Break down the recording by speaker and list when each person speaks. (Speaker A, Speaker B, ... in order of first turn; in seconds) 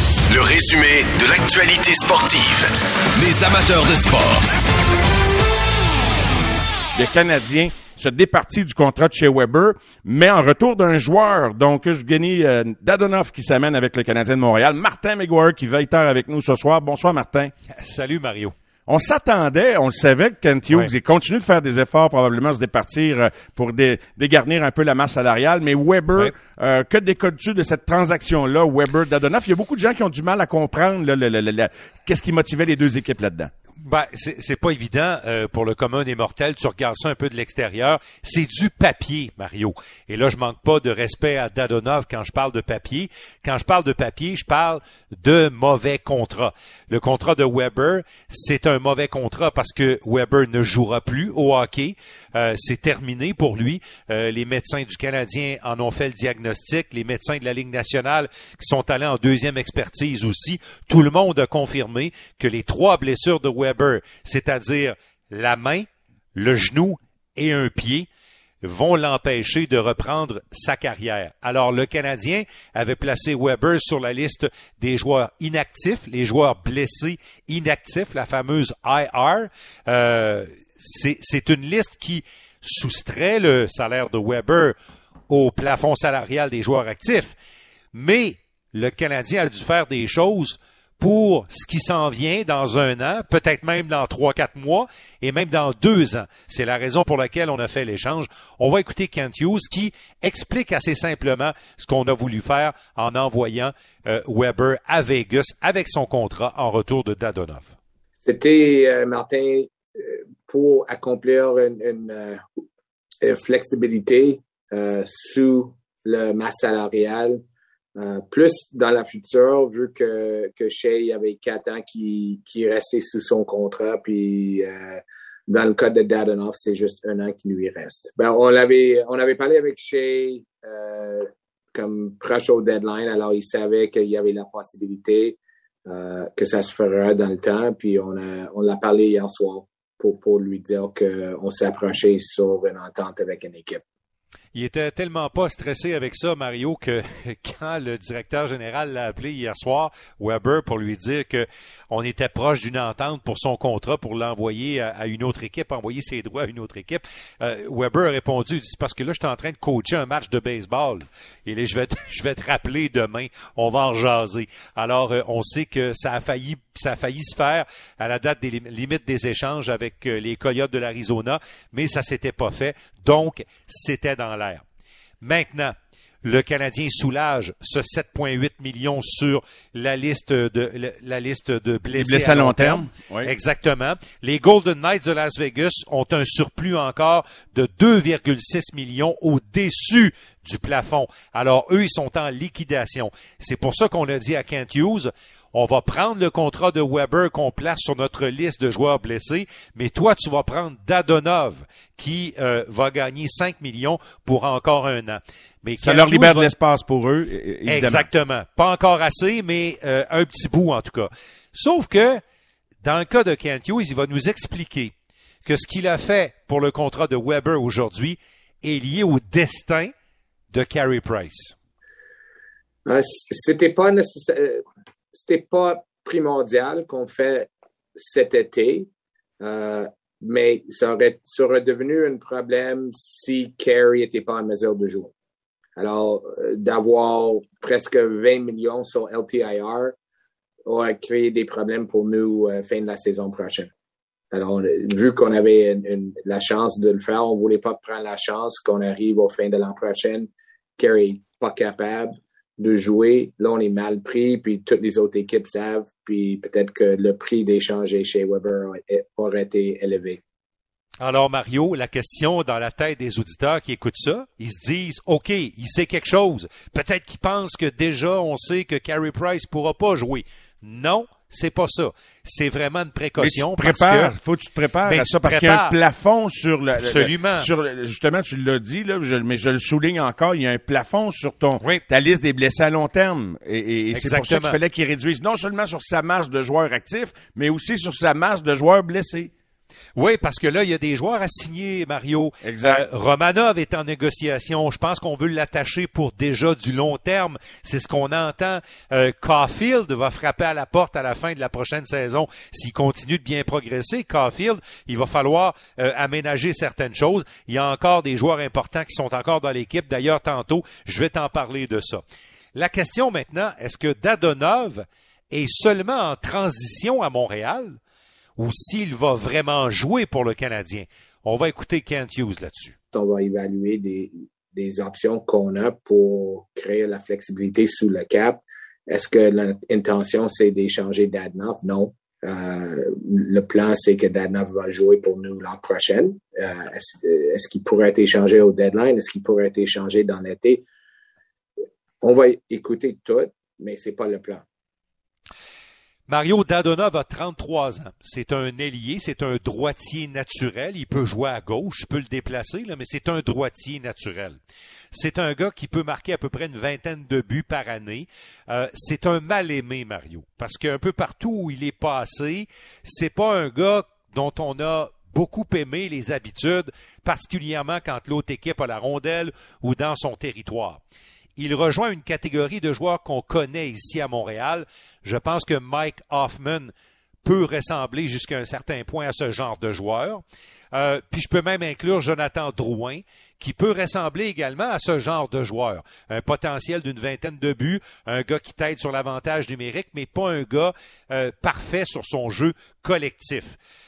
Speaker A: 0.3-4.4
Speaker B: 6.9-17.5, 18.9-33.5, 181.9-183.3, 205.8-208.1, 273.2-289.3, 292.4-292.8
Speaker C: 17.7-18.5, 33.8-68.1, 68.6-84.7, 85.3-87.3, 87.9-107.7, 144.5-174.6, 175.2-206.5, 207.7-212.2, 212.8-214.9, 215.4-219.9, 220.5-221.5, 261.0-274.1, 274.9-275.8, 276.8-277.5, 283.9-284.6, 289.9-312.0, 312.5-317.8, 318.4-322.7, 346.1-354.4, 354.9-370.8, 371.4-376.7, 377.2-393.6
Speaker D: 108.2-112.4, 113.2-117.4, 117.9-143.8, 222.8-228.9, 229.4-235.1, 235.8-239.9, 240.7-243.7, 244.3-260.2, 322.9-340.6, 342.0-344.4